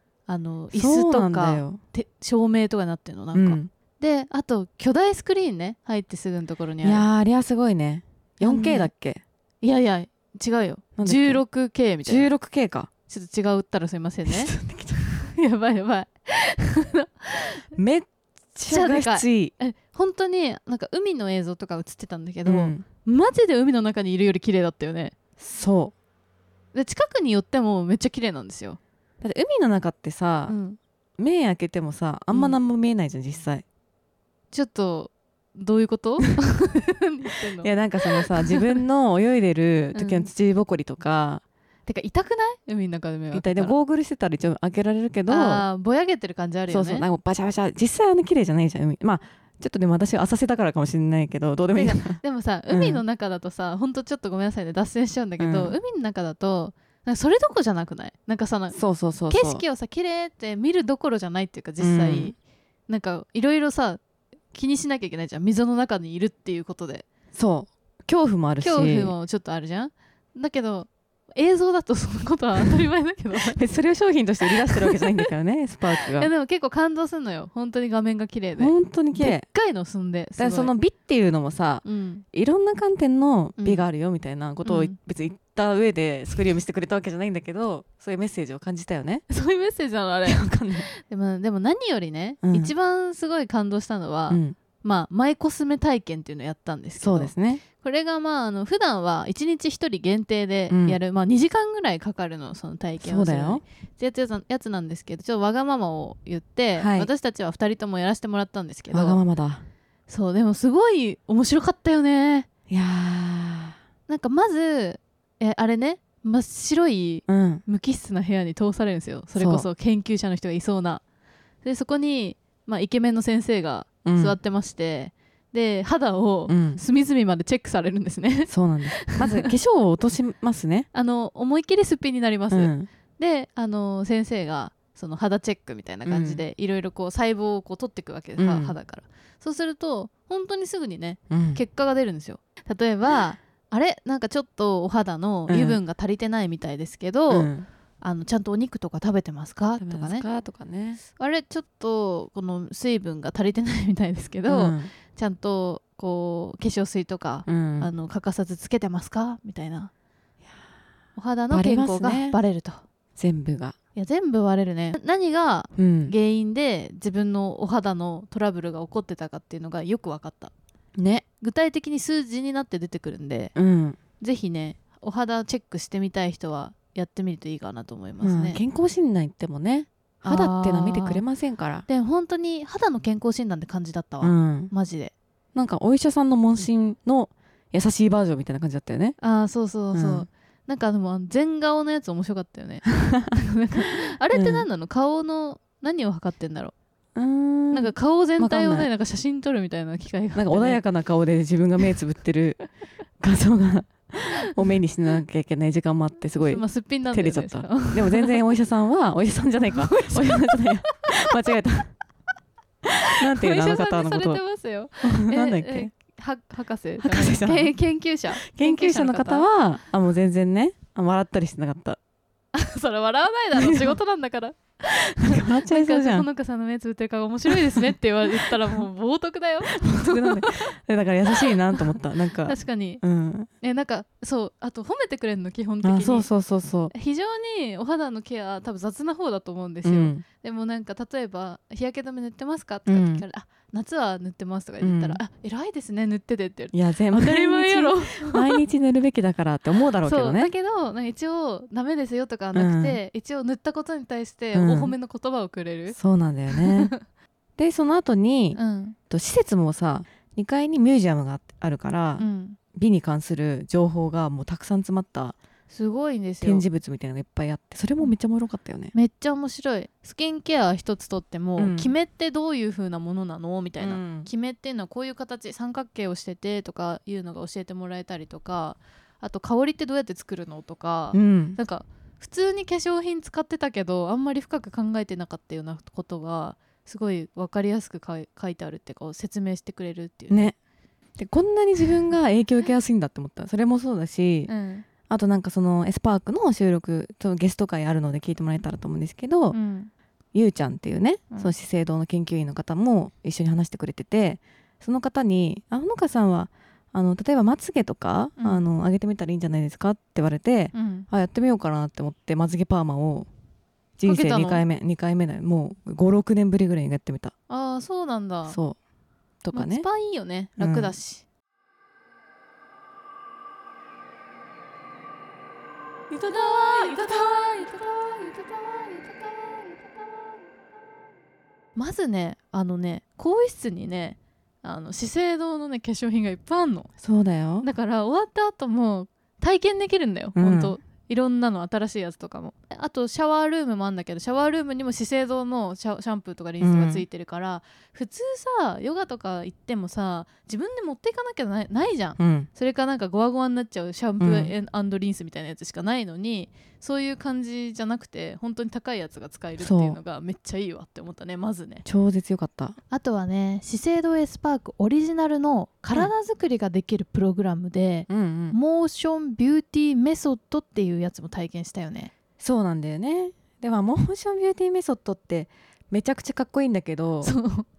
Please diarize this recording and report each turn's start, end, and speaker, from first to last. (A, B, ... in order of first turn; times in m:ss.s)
0:00.3-0:07.1 A
0:00.7-0:01.8 B
0:03.3-0:03.7 B
0:06.8-0:09.2 B
0:08.4-0:08.9 A
0:09.6-0:12.3 A
0:11.0-0:11.4 B
0:12.0-0:12.9 B
0:13.1-0:14.5 A
0:14.2-0:15.0 B
0:15.2-0:17.6 A
0:17.8-0:19.5 B
0:18.7-0:25.1 A
0:22.4-0:22.8 B
0:25.4-0:25.9 B
0:26.7-0:28.8 A
0:29.2-0:30.5 B
0:30.5-0:30.8 A
0:31.2-0:33.6 B
0:32.3-0:32.6 A
0:34.5-0:38.8 A
0:37.6-0:41.4 B
0:39.9-0:40.3 A
0:41.9-0:43.7 A
0:43.3-0:45.6 B
0:45.3-0:47.0 A
0:46.7-0:52.2 B
0:51.7-0:58.8 A
0:52.7-0:53.0 B
0:55.4-0:55.7 B
0:58.7-0:59.6 B
0:59.3-1:02.4 A
1:01.8-1:02.3 B
1:02.9-1:04.0 A
1:04.5-1:07.0 A
1:07.3-1:09.1 B
1:08.6-1:13.6 A
1:13.5-1:16.3 B
1:14.6-1:15.3 A
1:16.2-1:20.7 A
1:18.6-1:19.4 B
1:20.4-1:29.2 B
1:21.8-1:22.2 A
1:23.6-1:23.8 A
1:24.6-1:25.0 A
1:29.3-1:30.4 A
1:30.3-1:30.9 B
1:31.0-1:49.2 A
1:32.4-1:32.7 B
1:34.3-1:34.6 B
1:37.0-1:37.6 B
1:40.7-1:41.0 B
1:43.0-1:43.6 B
1:46.8-1:47.1 B
1:48.9-1:49.6 B
1:50.1-1:52.5 A
1:52.7-1:53.7 B
1:54.1-2:01.0 A
1:57.3-1:57.6 B
1:59.3-1:59.7 B
2:01.6-2:09.5 A
2:04.0-2:04.3 B
2:06.5-2:06.8 B
2:08.5-2:10.9 B
2:10.9-2:27.5 A
2:12.5-2:12.9 B
2:16.0-2:16.4 B
2:18.4-2:18.7 B
2:21.3-2:21.6 B
2:25.5-2:25.8 B
2:27.3-2:27.7 B
2:28.0-2:30.2 A
2:29.8-2:31.0 B
2:31.2-2:39.9 A
2:34.5-2:34.9 B
2:37.4-2:37.9 B
2:41.2-2:42.8 A
2:41.5-2:42.4 B
2:43.2-2:43.8 B
2:44.0-2:50.5 A
2:45.8-2:46.1 B
2:51.0-2:51.2 B
2:51.4-2:53.5 A
2:53.5-2:54.0 B
2:54.2-2:58.6 A
2:58.2-3:01.8 B
3:00.2-3:01.2 A
3:01.9-3:05.1 A
3:04.2-3:04.7 B
3:05.5-3:09.2 B
3:09.2-3:16.7 A
3:09.9-3:10.3 B
3:13.0-3:13.3 B
3:14.3-3:14.6 B
3:17.1-3:18.9 B
3:17.7-3:20.8 A
3:20.3-3:22.6 B
3:23.2-3:31.9 B
3:26.4-3:28.4 A
3:29.7-3:30.6 A
3:33.2-3:34.4 B
3:33.3-3:39.4 A
3:35.0-3:35.9 B
3:37.0-3:37.7 B
3:38.4-3:42.0 B
3:42.5-3:50.6 A
3:43.6-3:43.9 B
3:45.2-3:46.2 B
3:49.8-3:53.5 B
3:51.4-3:51.8 A
3:52.4-3:53.0 A
3:53.6-3:56.3 A
3:55.8-3:56.9 B
3:56.9-4:08.6 A
3:59.8-4:00.2 B
4:02.8-4:03.2 B
4:04.8-4:05.2 B
4:06.7-4:10.5 B
4:10.0-4:16.0 A
4:12.5-4:13.0 B
4:14.5-4:14.9 B
4:15.9-4:16.9 B
4:16.5-4:17.0 A
4:17.6-4:18.6 B
4:18.5-4:19.0 A
4:19.1-4:25.4 B
4:22.2-4:22.6 A
4:25.7-4:26.6 A
4:26.4-4:28.9 B
4:28.9-4:50.5 A
4:31.6-4:31.9 B
4:33.8-4:34.3 B
4:41.1-4:41.6 B
4:50.3-4:50.5 B
4:51.2-4:54.5 B
4:54.5-4:54.8 A
4:55.1-4:59.6 B
4:59.5-4:59.9 A
5:00.3-5:13.3 B
5:08.4-5:08.6 A
5:10.7-5:11.1 A
5:14.0-5:17.3 B
5:14.0-5:14.6 A
5:17.5-5:18.6 A
5:18.5-5:18.8 B
5:19.4-5:19.9 B
5:19.5-5:21.2 A
5:20.6-5:20.9 B
5:26.1-5:27.2 B
5:26.2-5:30.4 A
5:31.8-5:36.9 A
5:37.0-5:37.7 B
5:37.6-6:01.8 A
5:40.4-5:40.8 B
5:46.6-5:47.0 B
5:52.2-5:52.5 B
5:54.2-5:54.5 B
5:59.6-6:00.0 B
6:01.8-6:02.8 B
6:02.9-6:12.1 A
6:08.1-6:08.6 B
6:12.4-6:17.3 B
6:17.2-6:17.7 A